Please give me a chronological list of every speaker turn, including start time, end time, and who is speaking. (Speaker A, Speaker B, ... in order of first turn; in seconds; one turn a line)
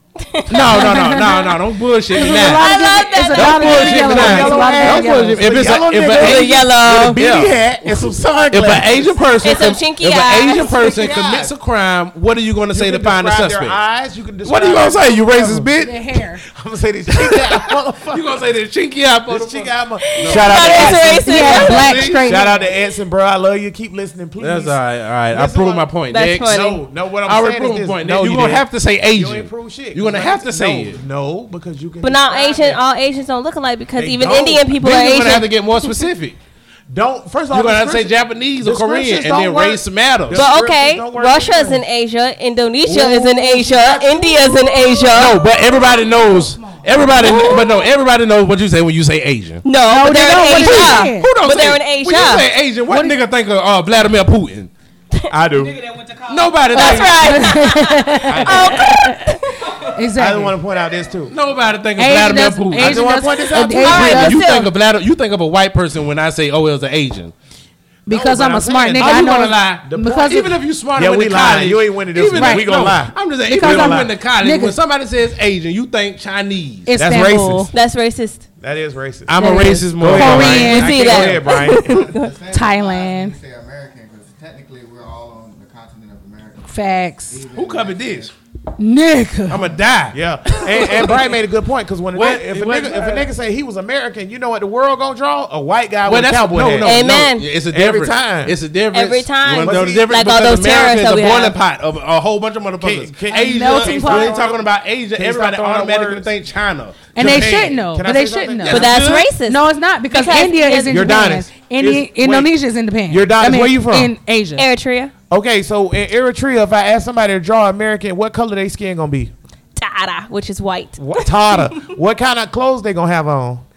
Speaker A: 0.2-1.3
Speaker B: 0.5-1.6
Speaker C: 0.5-2.7
Speaker B: 2.1-5.6
Speaker A: 2.1-4.2
Speaker C: 3.3-13.8
Speaker D: 3.7-9.2
Speaker A: 6.1-7.2
Speaker A: 9.4-10.9
Speaker D: 10.5-11.5
Speaker D: 12.7-15.7
Speaker C: 14.4-16.0
Speaker B: 15.8-16.4
Speaker D: 16.4-18.4
Speaker C: 17.2-22.5
Speaker D: 19.3-24.8
Speaker A: 20.1-22.2
Speaker B: 21.2-22.7
Speaker C: 24.4-26.6
Speaker D: 25.3-32.8
Speaker A: 26.1-26.8
Speaker C: 27.2-31.0
Speaker A: 32.0-35.5
Speaker D: 34.0-34.7
Speaker C: 34.8-36.4
Speaker D: 36.9-41.8
Speaker C: 37.5-40.5
Speaker A: 40.3-45.4
Speaker C: 42.9-43.2
Speaker D: 42.9-44.4
Speaker C: 45.1-49.6
Speaker E: 45.4-47.4
Speaker A: 47.2-47.7
Speaker A: 49.6-52.5
Speaker B: 49.9-51.3
Speaker C: 50.4-54.7
Speaker B: 52.9-53.2
Speaker D: 55.3-55.8
Speaker E: 55.5-57.3
Speaker C: 56.3-57.4
Speaker A: 56.7-59.5
Speaker B: 57.1-59.4
Speaker C: 58.3-58.9
Speaker E: 59.6-59.9
Speaker B: 59.9-60.6
Speaker D: 60.2-61.4
Speaker C: 61.3-63.2
Speaker B: 62.0-64.5
Speaker D: 62.8-64.3
Speaker C: 63.8-67.3
Speaker A: 63.8-64.7
Speaker B: 68.1-70.5
Speaker D: 68.1-74.1
Speaker C: 69.0-76.9
Speaker B: 72.3-72.7
Speaker B: 73.5-74.8
Speaker B: 76.9-77.7
Speaker D: 77.0-77.7
Speaker A: 77.7-78.5
Speaker D: 78.6-82.1
Speaker C: 79.3-81.4
Speaker B: 79.4-81.1
Speaker A: 80.5-82.3
Speaker F: 81.7-88.3
Speaker B: 82.5-83.4
Speaker B: 86.7-87.4
Speaker C: 87.5-88.3
Speaker B: 88.8-89.7
Speaker C: 89.5-90.2
Speaker D: 90.1-97.0
Speaker C: 90.7-91.2
Speaker C: 92.1-93.3
Speaker C: 96.0-107.8
Speaker A: 96.8-97.5
Speaker D: 97.7-98.6
Speaker A: 98.9-101.6
Speaker D: 99.5-100.1
Speaker D: 102.8-106.3
Speaker B: 103.3-104.5
Speaker B: 107.2-108.9
Speaker D: 107.2-109.0
Speaker C: 108.7-109.3
Speaker A: 108.7-111.3
Speaker B: 109.5-114.7
Speaker D: 110.9-112.5
Speaker D: 113.1-114.1
Speaker A: 114.6-115.1
Speaker D: 115.3-119.3
Speaker A: 119.8-121.9
Speaker D: 121.0-123.6